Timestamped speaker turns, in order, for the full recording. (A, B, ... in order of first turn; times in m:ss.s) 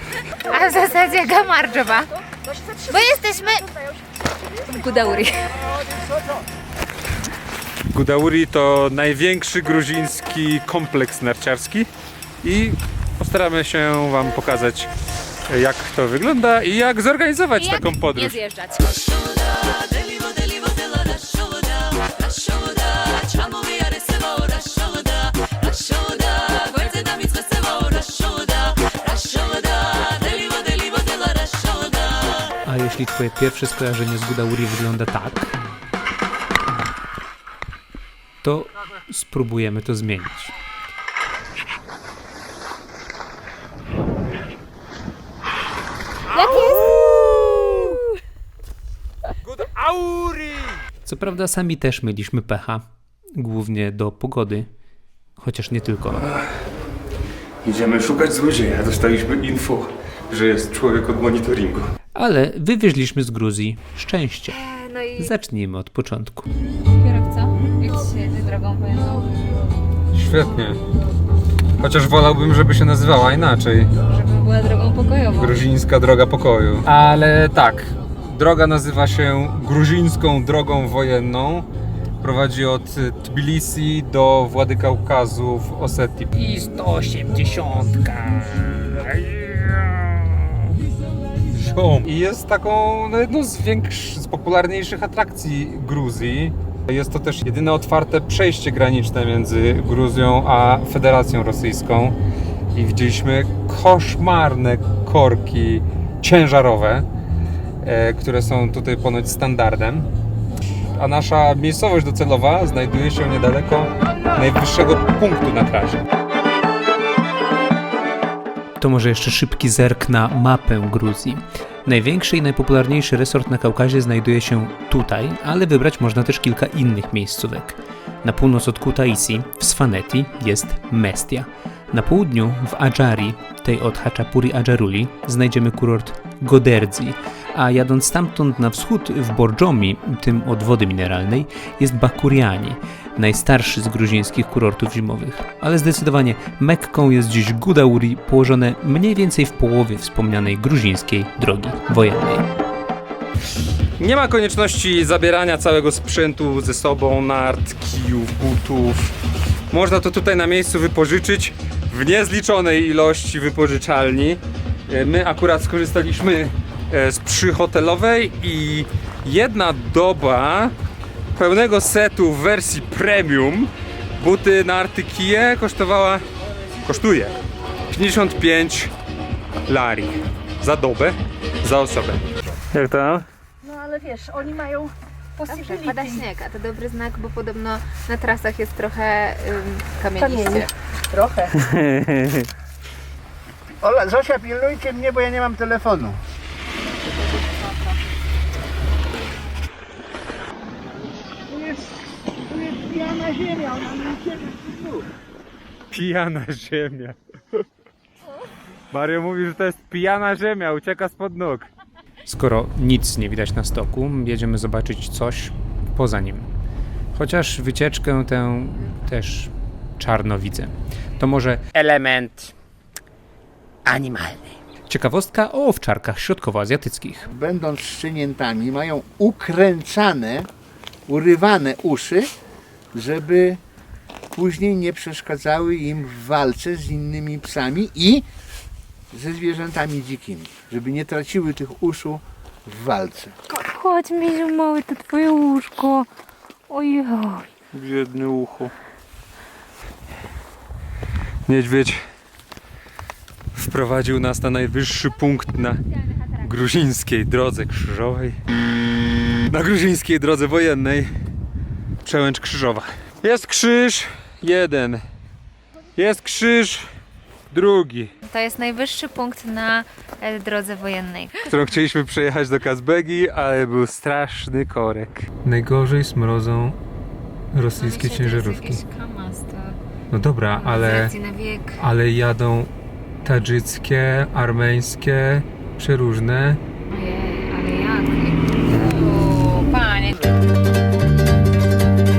0:00.4-0:02.1 A
0:02.4-0:03.7 B
0:02.9-0:03.7 A
0:04.6-0:05.4 A
0:07.9-0:11.9 C
0:12.4-0:14.9 C
0:15.5-0:18.4 C
0:17.6-0:32.1 A
0:32.6-0:35.6 D
0:38.4-0:40.5 D
0:46.4-0:47.0 C
0:46.4-0:47.0 A
0:49.4-0:50.8 C
0:51.0-0:54.7 D
0:55.4-0:56.2 D
0:57.6-1:01.9 C
1:02.1-1:04.6 D
1:04.5-1:05.3 A
1:05.2-1:06.5 D
1:07.0-1:09.4 A
1:10.1-1:10.8 C
1:11.8-1:13.9 C
1:14.1-1:15.6 A
1:15.4-1:21.7 C
1:22.2-1:30.6 C
1:31.5-1:42.2 C
1:42.7-1:47.0 C
1:47.8-1:50.1 C
1:51.0-1:56.0 C
1:58.8-2:32.4 D
2:34.0-2:39.1 C
2:39.7-2:50.7 C
2:51.4-2:56.2 C
2:56.8-2:57.3 C
2:57.9-2:58.9 C
2:59.7-3:03.2 C
3:03.6-3:06.2 B
3:05.5-3:10.7 A
3:10.2-3:10.6 B
3:11.6-3:12.5 C
3:13.8-3:16.2 E
3:22.7-3:24.7 E
3:25.9-3:27.2 C
3:28.9-3:31.7 C
3:32.2-3:36.5 D
3:37.1-3:41.6 D
3:41.8-3:42.3 C
3:43.9-3:44.3 D
3:44.9-3:47.3 D
3:47.3-3:50.5 E
3:51.1-3:52.3 E
3:52.9-3:53.6 E
3:54.3-3:58.2 E
3:59.1-4:03.3 E
4:03.5-4:06.1 A
4:06.7-4:07.5 A
4:07.7-4:08.7 C
4:11.5-4:12.0 C
4:13.5-4:15.8 C
4:16.4-4:18.4 C
4:19.5-4:21.1 C
4:22.0-4:25.0 C
4:26.0-4:26.8 C
4:27.5-4:28.1 C
4:28.2-4:31.5 A
4:31.4-4:36.8 C
4:37.5-4:38.8 C
4:37.8-4:39.8 A
4:40.1-4:41.1 C
4:40.6-4:41.8 A
4:41.8-4:42.7 C
4:43.2-4:46.6 C
4:46.9-4:50.3 A